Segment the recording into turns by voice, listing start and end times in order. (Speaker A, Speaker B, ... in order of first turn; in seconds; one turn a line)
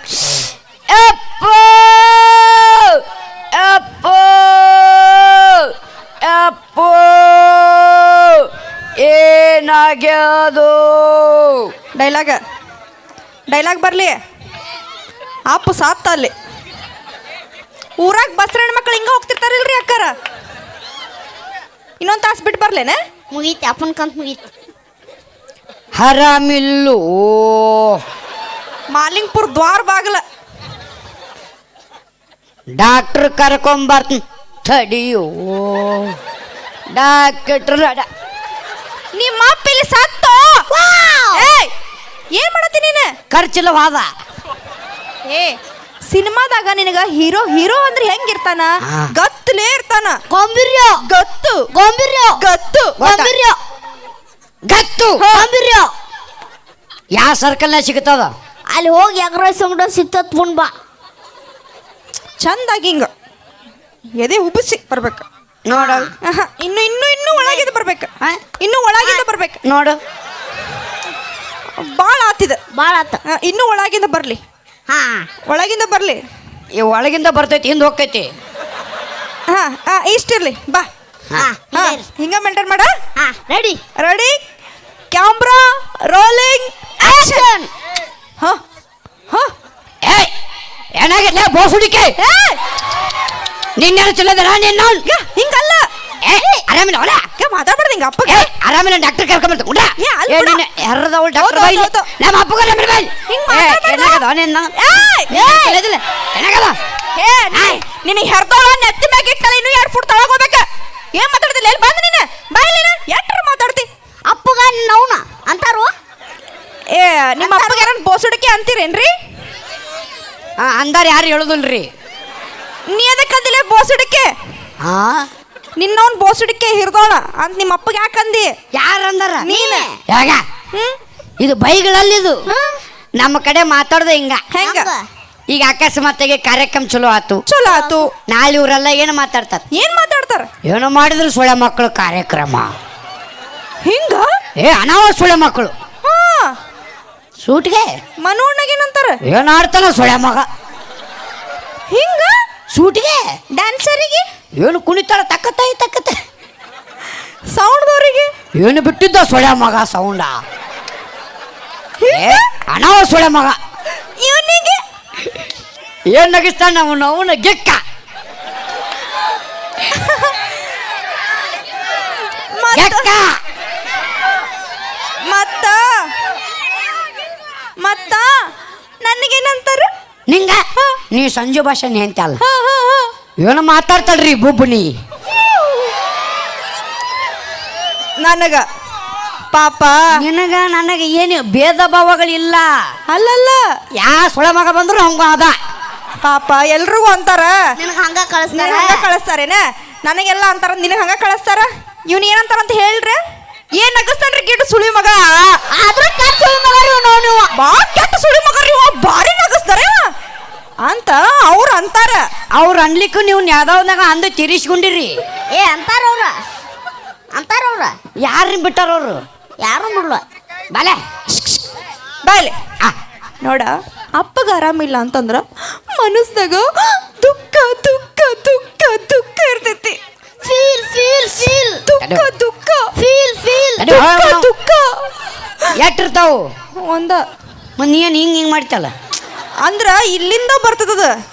Speaker A: 0.3-11.7
Speaker B: 11.9-12.4
Speaker B: 13.5-14.2
Speaker B: 15.5-16.3
Speaker B: 18.0-20.1
Speaker B: 22.0-23.0
Speaker C: 23.3-24.5
Speaker A: 26.0-28.0
Speaker B: 28.9-30.2
Speaker A: 32.8-36.2
Speaker A: 36.9-38.1
Speaker B: 39.1-40.7
Speaker C: 40.7-41.5
Speaker B: 41.4-41.7
Speaker B: 42.3-43.2
Speaker A: 43.3-44.1
Speaker B: 45.3-45.6
Speaker B: 46.1-50.2
Speaker A: 48.8-49.1
Speaker C: 50.3-51.0
Speaker B: 51.0-51.7
Speaker C: 51.7-52.4
Speaker B: 52.4-53.0
Speaker A: 53.0-53.3
Speaker C: 53.0-53.6
Speaker A: 54.7-55.2
Speaker B: 55.2-55.5
Speaker C: 55.3-55.9
Speaker A: 57.1-58.3
Speaker C: 58.7-60.7
Speaker B: 62.4-63.1
Speaker B: 64.2-65.2
Speaker A: 65.7-66.1
Speaker C: 65.7-66.1
Speaker B: 66.2-69.6
Speaker C: 67.3-67.7
Speaker A: 69.7-70.0
Speaker B: 71.8-72.6
Speaker C: 72.7-73.2
Speaker B: 73.3-74.4
Speaker C: 74.9-75.3
Speaker B: 75.5-76.2
Speaker A: 76.7-78.3
Speaker B: 79.5-80.9
Speaker C: 81.3-82.1
Speaker B: 81.7-82.9
Speaker C: 83.2-83.8
Speaker B: 84.0-84.4
Speaker B: 85.1-87.5
Speaker C: 87.0-87.7
Speaker A: 90.0-90.3
Speaker A: 91.0-92.2
Speaker B: 92.2-92.6
Speaker A: 93.8-95.0
Speaker B: 95.0-95.9
Speaker A: 96.2-97.3
Speaker B: 97.4-98.5
Speaker A: 98.3-105.1
Speaker B: 100.0-100.6
Speaker B: 101.4-102.1
Speaker B: 103.3-104.2
Speaker B: 104.8-105.8
Speaker C: 105.3-106.0
Speaker A: 106.3-106.8
Speaker B: 107.2-113.9
Speaker A: 107.5-107.8
Speaker C: 114.3-115.9
Speaker B: 116.9-119.1
Speaker C: 117.4-117.9
Speaker A: 120.6-121.9
Speaker B: 122.9-124.3
Speaker A: 124.8-125.3
Speaker B: 125.8-128.5
Speaker A: 128.7-129.5
Speaker B: 129.4-129.8
Speaker C: 129.5-130.0
Speaker A: 130.1-130.4
Speaker A: 131.4-132.4
Speaker C: 132.5-132.8
Speaker A: 133.2-134.4
Speaker B: 134.5-134.9
Speaker C: 134.6-135.0
Speaker A: 135.5-137.4
Speaker B: 137.5-138.1
Speaker C: 137.7-138.0
Speaker A: 138.3-139.6
Speaker B: 139.7-140.5
Speaker A: 140.7-142.7
Speaker B: 143.8-144.3
Speaker A: 144.6-145.7
Speaker B: 146.0-146.6
Speaker A: 147.4-148.0
Speaker B: 148.2-149.2
Speaker A: 149.2-150.5
Speaker B: 151.9-152.4
Speaker A: 152.7-153.3
Speaker B: 153.5-154.3
Speaker A: 154.6-156.2
Speaker B: 157.5-158.3
Speaker A: 158.6-160.4
Speaker B: 162.0-162.4
Speaker A: 162.1-163.6
Speaker B: 164.2-164.8
Speaker A: 166.1-167.8
Speaker B: 169.9-170.4
Speaker B: 172.6-173.1
Speaker A: 172.7-173.3
Speaker B: 175.3-176.1
Speaker B: 177.8-178.4
Speaker B: 179.0-179.9
Speaker A: 180.3-182.4
Speaker B: 182.4-183.1
Speaker A: 183.4-184.9
Speaker B: 188.2-188.7
Speaker B: 189.5-190.2
Speaker A: 190.1-192.7
Speaker B: 193.1-193.6
Speaker A: 193.9-195.6
Speaker B: 196.2-197.6
Speaker C: 197.8-199.1
Speaker B: 198.6-203.2
Speaker B: 203.8-205.6
Speaker C: 205.7-207.5
Speaker B: 207.6-210.1
Speaker B: 210.8-212.3
Speaker A: 212.5-215.2
Speaker C: 215.5-216.4
Speaker C: 217.3-217.9
Speaker A: 218.2-219.2
Speaker C: 219.6-220.2
Speaker A: 220.7-221.0
Speaker B: 221.3-221.7
Speaker B: 222.2-222.6
Speaker B: 223.4-230.0
Speaker C: 230.4-231.8
Speaker B: 231.9-232.9
Speaker A: 232.0-232.3
Speaker C: 233.0-233.9
Speaker A: 233.8-234.5
Speaker B: 233.9-235.7
Speaker A: 235.8-236.5
Speaker B: 236.8-237.2
Speaker A: 237.8-238.9
Speaker B: 239.7-241.2